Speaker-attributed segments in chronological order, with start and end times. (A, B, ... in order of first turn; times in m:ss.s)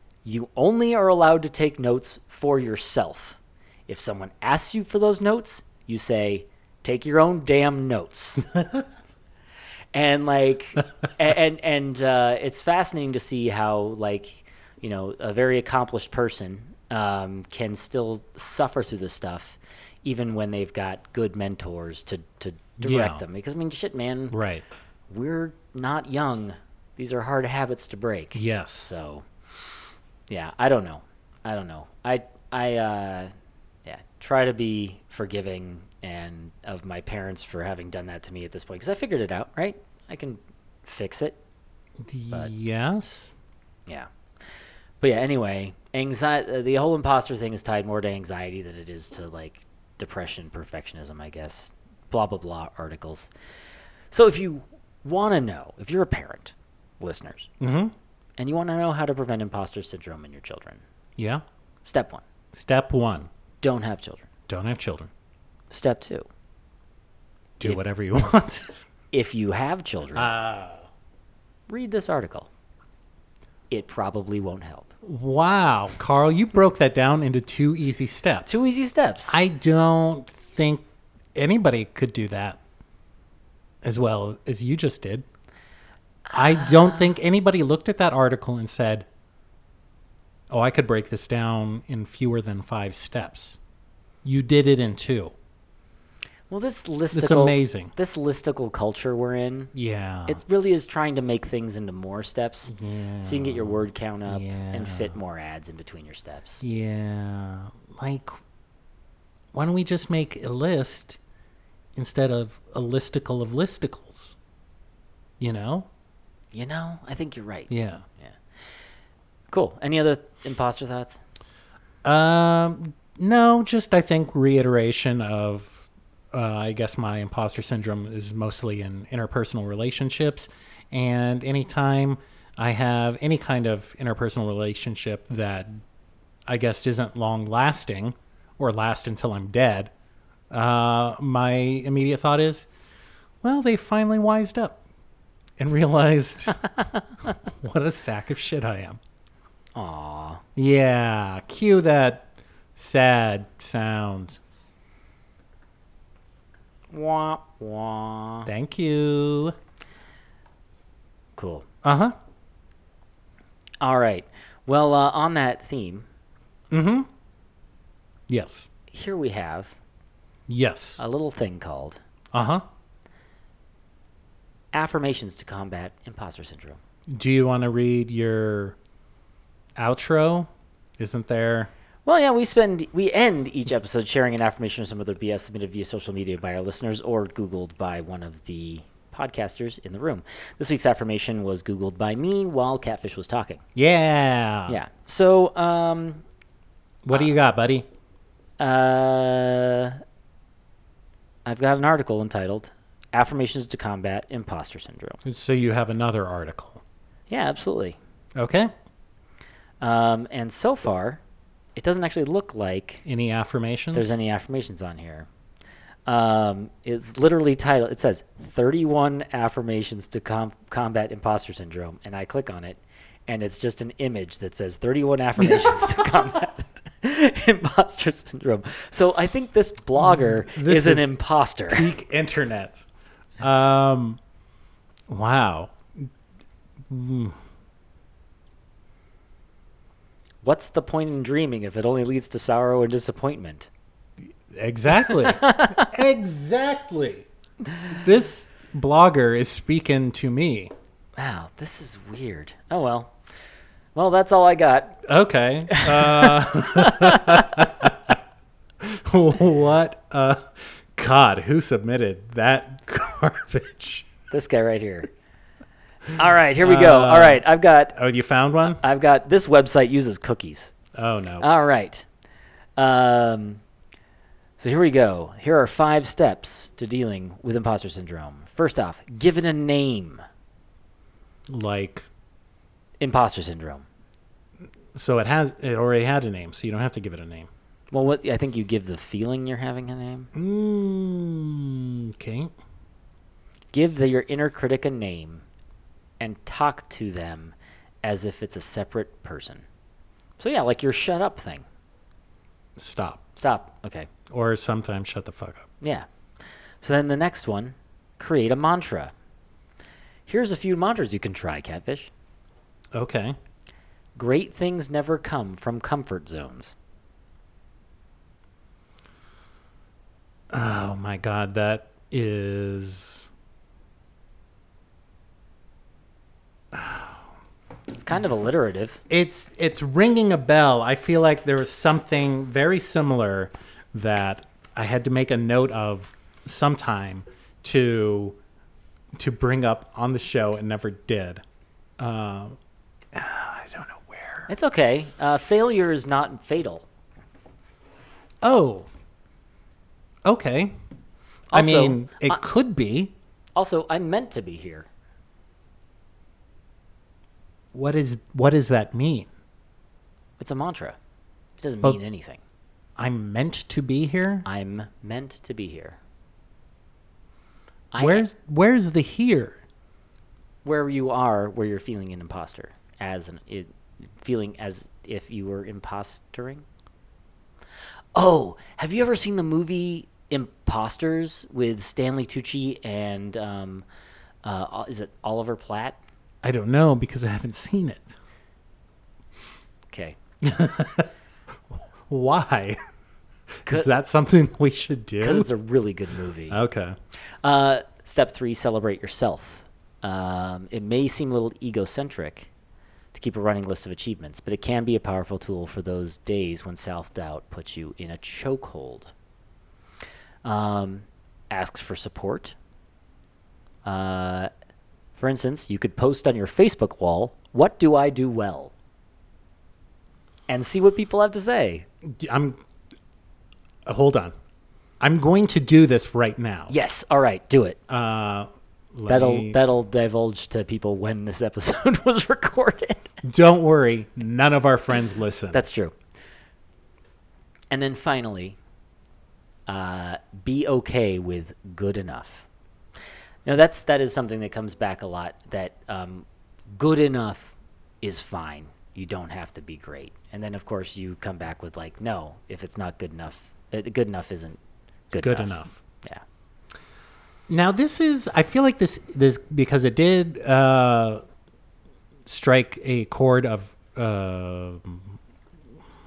0:00.2-0:08.5 A
0:08.6-0:08.8 B
0:09.9-0:24.4 A
0:22.8-0:23.2 B
0:24.3-0:24.6 B
0:25.1-0:29.2 A
0:28.4-0:28.9 B
0:30.3-0:33.3 A
0:33.8-0:41.4 A
0:42.0-0:43.3 B
0:45.0-0:53.3 A
0:54.1-0:57.5 A
0:57.6-0:57.9 B
0:58.4-1:00.8 A
1:01.2-1:01.4 B
1:01.8-1:02.2 A
1:02.5-1:03.3 B
1:03.6-1:04.3 A
1:04.5-1:05.1 B
1:05.7-1:06.3 A
1:07.6-1:08.8 B
1:09.1-1:10.3 A
1:10.2-1:10.9 B
1:11.7-1:12.5 A
1:13.7-1:14.9 A
1:15.0-1:18.7 B
1:18.5-1:19.4 A
1:19.3-1:22.6 B
1:23.8-1:25.2 B
1:26.3-1:27.1 A
1:26.3-1:29.1 B
1:30.5-1:33.6 B
1:34.2-1:35.3 B
1:36.5-1:39.7 A
1:37.1-1:37.9 B
1:39.7-1:40.4 B
1:40.3-1:46.6 A
1:42.7-1:45.2 B
1:46.6-1:48.4 B
1:49.5-1:51.2 B
1:52.0-1:54.4 B
1:55.4-1:55.9 B
1:56.5-1:58.4 A
1:57.7-1:58.0 B
1:59.5-2:01.2 A
2:02.0-2:15.8 B
2:16.5-2:19.9 B
2:20.5-2:22.7 B
2:23.4-2:24.8 B
2:25.6-2:26.6 B
2:27.4-2:29.0 B
2:29.8-2:30.4 A
2:30.6-2:34.4 B
2:36.9-2:38.5 A
2:38.5-2:39.6 B
2:41.4-2:41.6 A
2:41.8-2:42.2 B
2:43.8-2:46.1 A
2:46.7-2:47.1 B
2:48.3-2:48.7 B
2:48.9-2:49.8 A
2:50.5-2:51.0 B
2:51.0-2:52.0 A
2:52.3-2:52.6 B
2:54.7-2:56.8 A
2:57.1-2:58.8 B
2:59.8-3:01.7 B
3:02.1-3:13.6 A
3:13.8-3:14.8 B
3:14.7-3:16.2 A
3:17.0-3:17.9 B
3:18.6-3:20.0 A
3:21.4-3:25.2 A
3:25.2-3:26.8 B
3:27.3-3:28.0 A
3:28.4-3:28.7 B
3:29.8-3:31.2 A
3:31.8-3:33.0 A
3:33.0-3:34.2 B
3:33.9-3:35.3 A
3:36.1-3:51.9 A
3:45.4-3:45.9 B
3:50.0-3:51.1 B
3:51.7-3:52.9 B
3:53.4-3:54.2 B
3:55.1-3:56.1 B
3:56.9-3:57.4 B
4:00.4-4:03.7 A
4:04.5-4:07.3 B
4:04.9-4:05.9 A
4:07.9-4:10.7 B
4:11.2-4:13.2 A
4:14.0-4:15.0 A
4:15.0-4:18.2 B
4:15.7-4:17.6 A
4:18.8-4:24.1 B
4:24.3-4:25.1 A
4:26.1-4:28.0 A
4:26.6-4:28.8 B
4:28.7-4:30.7 A
4:31.0-4:31.5 B
4:31.4-4:32.0 A
4:32.8-4:33.6 A
4:34.6-4:40.2 A
4:41.5-4:42.1 B
4:43.0-4:43.9 A
4:44.9-4:47.5 B
4:47.9-4:50.3 A
4:50.3-4:52.5 B
4:53.7-4:55.4 A
4:56.2-4:59.6 A
5:00.4-5:01.6 A
5:02.8-5:03.2 B
5:03.4-5:04.1 A
5:04.3-5:05.7 B
5:05.8-5:06.1 A
5:06.8-5:09.1 A
5:10.3-5:12.1 A
5:12.9-5:13.4 B
5:14.2-5:16.8 A
5:20.5-5:23.3 B
5:26.7-5:27.2 B
5:27.9-5:29.0 A
5:29.1-5:38.4 B
5:39.2-5:41.4 B
5:42.0-5:42.6 B
5:43.1-5:44.5 B
5:44.5-5:46.9 A
5:48.4-5:48.9 B
5:50.2-5:50.7 B
5:51.5-5:52.4 A
5:51.5-5:53.1 B
5:53.6-5:54.9 A
5:57.7-5:59.3 B
6:00.4-6:01.0 A
6:01.6-6:02.4 A
6:03.0-6:04.5 B
6:04.4-6:06.0 A
6:07.9-6:08.3 A
6:08.0-6:09.6 B
6:10.6-6:16.6 A
6:18.2-6:23.8 A
6:24.4-6:26.0 A
6:26.4-6:28.2 B
6:29.9-6:30.2 A
6:30.4-6:31.1 B
6:31.7-6:32.8 B
6:33.6-6:35.5 B
6:35.2-6:36.6 A
6:36.5-6:37.0 B
6:37.2-6:42.5 A
6:43.1-6:49.1 A
6:50.4-6:52.6 A
6:53.8-6:54.5 A
6:55.2-6:58.7 A
7:00.5-7:01.9 A
7:02.0-7:02.6 B
7:03.9-7:04.4 B
7:05.0-7:06.7 B
7:06.7-7:07.8 A
7:07.9-7:09.6 B
7:09.1-7:13.1 A
7:13.2-7:15.6 B
7:15.5-7:16.0 A
7:17.7-7:18.6 A
7:19.7-7:22.5 A
7:23.5-7:34.6 A
7:35.1-7:36.2 A
7:35.2-7:35.8 B
7:37.5-7:41.2 B
7:42.3-7:45.2 B